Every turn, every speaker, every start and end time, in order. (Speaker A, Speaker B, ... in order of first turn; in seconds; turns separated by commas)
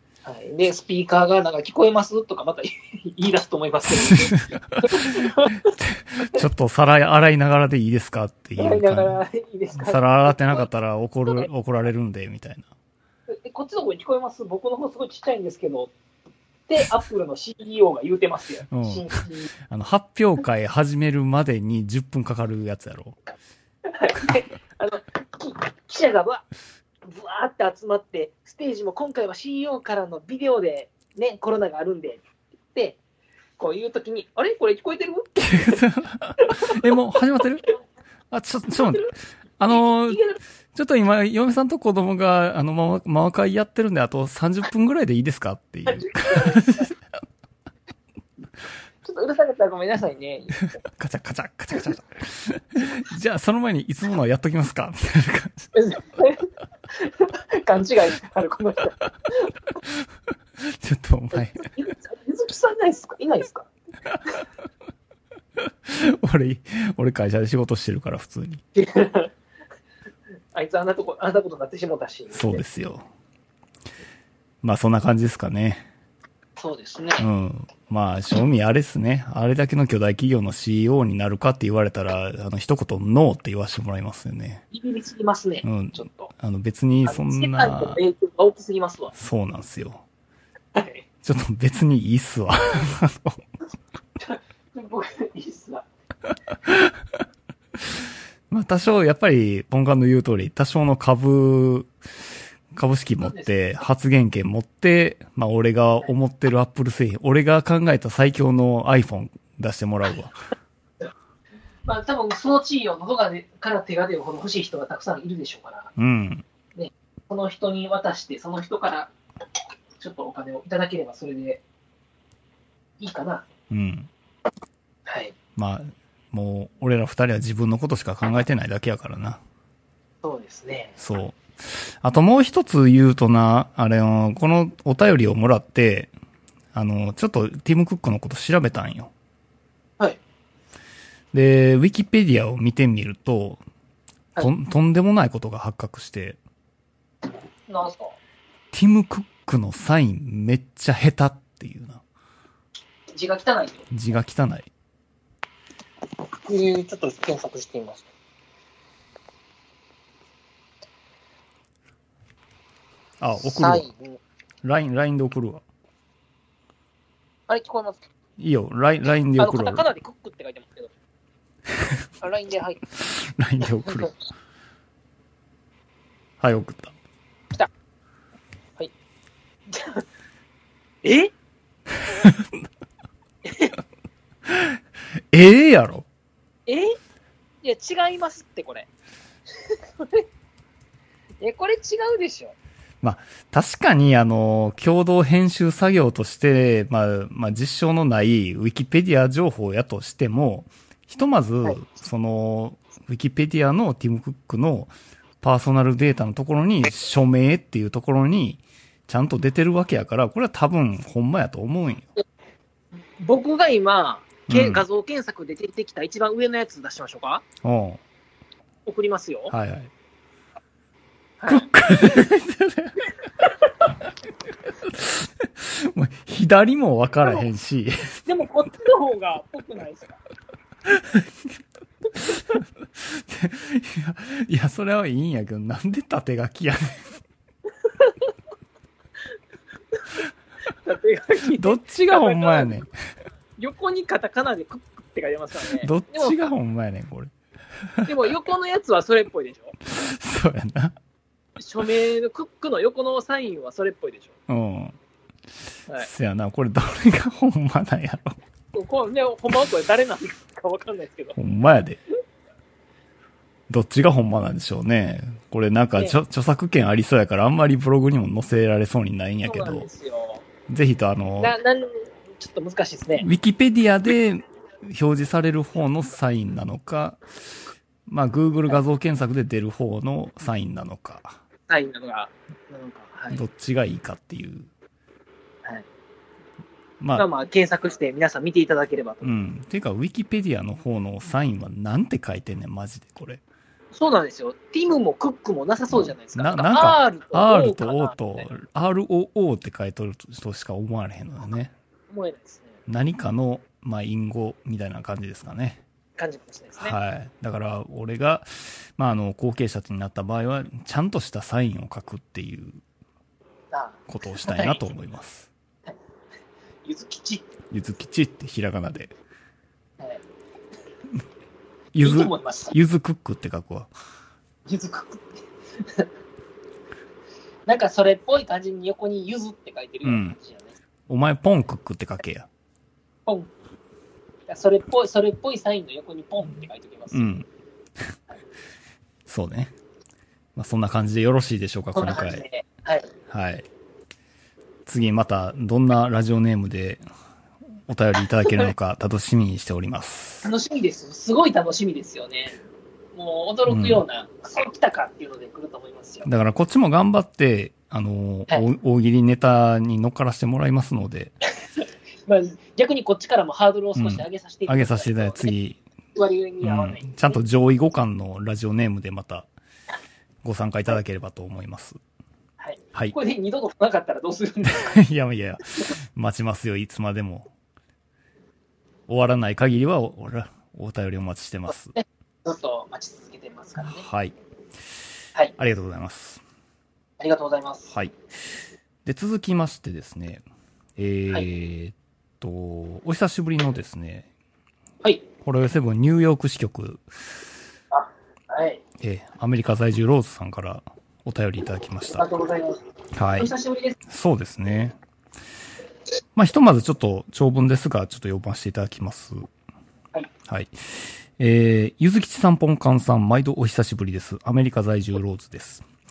Speaker A: 0.2-5.7, Speaker B: 3.9-9.2, Speaker A: 8.6-10.7, Speaker B: 9.8-12.7, Speaker A: 13.3-15.9, Speaker A: 16.7-19.5, Speaker B: 18.7-23.2, Speaker A: 23.9-26.4, Speaker A: 27.0-33.0, Speaker A: 33.6-35.8, Speaker B: 35.4-37.7, Speaker A: 36.4-36.9, Speaker B: 38.3-40.2, Speaker A: 38.8-39.1, Speaker A: 39.7-40.4, Speaker B: 40.7-47.0, Speaker A: 46.0-46.9, Speaker A: 49.0-50.6, Speaker B: 50.6-55.7, Speaker A: 55.8-59.5, Speaker B: 60.6-61.7, Speaker A: 61.3-63.7, Speaker B: 65.8-68.6, Speaker A: 68.8-69.3, Speaker A: 70.5-72.6, Speaker B: 72.3-73.1, Speaker B: 74.6-75.9, Speaker A: 76.6-77.3, Speaker B: 77.2-84.7, Speaker A: 84.7-86.3, Speaker B: 85.6-88.0, Speaker A: 87.1-89.1, Speaker B: 89.2-90.0, Speaker A: 90.8-91.1, Speaker B: 91.2-93.4, Speaker A: 94.2-95.9, Speaker B: 96.7-96.9, Speaker B: 98.5-101.9, Speaker B: 102.7-110.4, Speaker A: 103.2-103.5, Speaker A: 111.8-115.9, Speaker B: 116.0-116.5, Speaker A: 116.8-119.1, Speaker A: 120.0-121.6, Speaker A: 123.0-123.5, Speaker B: 123.7-124.1, Speaker A: 125.1-125.3, Speaker B: 125.6-129.4, Speaker A: 130.2-131.0, Speaker B: 131.0-136.1, Speaker B: 136.7-139.1, Speaker B: 141.3-143.6, Speaker B: 144.4-146.4, Speaker A: 147.7-148.2, Speaker B: 148.7-152.0, Speaker A: 153.1-153.8, Speaker B: 153.9-154.7, Speaker A: 156.5-158.1, Speaker B: 163.2-163.9, Speaker A: 163.4-164.2, Speaker B: 164.6-165.6, Speaker A: 167.5-168.0, Speaker B: 168.4-169.9, Speaker A: 169.4-170.9, Speaker A: 172.2-172.8, Speaker B: 173.0-174.1, Speaker B: 176.4-176.9, Speaker A: 179.7-180.1, Speaker A: 181.0-181.3, Speaker B: 182.0-182.5, Speaker A: 183.4-183.7, Speaker B: 184.5-184.8, Speaker B: 185.3-186.1, Speaker A: 186.7-187.0, Speaker A: 187.6-188.9, Speaker A: 189.6-190.2, Speaker A: 191.4-192.6, Speaker B: 193.0-212.1, Speaker A: 213.2-217.4, Speaker B: 214.5-214.8, Speaker B: 217.6-218.0, Speaker A: 218.9-219.5, Speaker B: 219.5-219.9, Speaker A: 221.4-222.2, Speaker B: 221.5-223.1, Speaker B: 224.8-228.3, Speaker A: 228.2-230.2, Speaker B: 230.9-231.3, Speaker B: 232.4-237.1, Speaker A: 237.8-238.3, Speaker A: 239.9-242.8, Speaker B: 241.5-242.9, Speaker A: 243.6-246.5, Speaker B: 245.8-247.3, Speaker A: 248.1-249.8, Speaker B: 249.8-250.9, Speaker A: 251.6-254.3, Speaker B: 254.5-255.0, Speaker B: 256.0-258.4, Speaker A: 258.7-261.4, Speaker B: 261.4-262.0, Speaker B: 263.7-269.9, Speaker A: 269.4-270.4, Speaker B: 270.7-271.6, Speaker A: 271.4-273.3, Speaker B: 273.2-277.2, Speaker B: 278.1-281.4, Speaker A: 281.7-283.4, Speaker B: 283.3-284.7, Speaker B: 287.0-287.3, Speaker A: 287.2-289.3, Speaker B: 289.2-293.4, Speaker A: 293.9-298.5, Speaker B: 295.9-301.7, Speaker A: 302.1-302.7, Speaker B: 302.9-305.8, Speaker A: 306.2-306.9, Speaker B: 306.8-312.8, Speaker A: 313.7-314.8, Speaker B: 314.1-315.5, Speaker A: 316.8-317.5, Speaker B: 317.7-319.1, Speaker B: 321.9-323.9, Speaker A: 322.0-322.7, Speaker A: 324.7-326.1, Speaker A: 327.7-330.7, Speaker B: 330.0-330.4, Speaker B: 331.1-332.5, Speaker A: 333.3-333.5, Speaker A: 334.5-337.3, Speaker B: 337.1-337.5, Speaker B: 339.3-339.7, Speaker B: 340.6-342.4, Speaker A: 341.9-343.1, Speaker B: 343.3-343.7, Speaker B: 344.9-347.0, Speaker B: 347.9-350.5, Speaker A: 348.4-348.7, Speaker A: 350.4-352.6, Speaker A: 353.1-356.3, Speaker B: 353.7-354.0, Speaker B: 356.2-361.4, Speaker A: 361.8-365.5, Speaker B: 364.0-365.8, Speaker A: 366.1-367.4, Speaker B: 366.6-369.5, Speaker B: 370.4-372.0, Speaker A: 372.6-375.0, Speaker B: 374.7-377.5, Speaker B: 379.1-382.0, Speaker A: 382.0-384.0, Speaker B: 383.8-384.4, Speaker B: 385.6-386.4, Speaker A: 387.2-387.9, Speaker B: 387.9-388.2, Speaker B: 389.1-390.4, Speaker B: 391.0-394.3, Speaker B: 395.4-397.1, Speaker A: 397.9-398.8, Speaker B: 399.0-402.3, Speaker A: 402.1-402.8, Speaker B: 403.1-403.5, Speaker A: 403.4-404.0, Speaker B: 404.1-405.0, Speaker B: 406.4-409.4, Speaker B: 410.5-415.9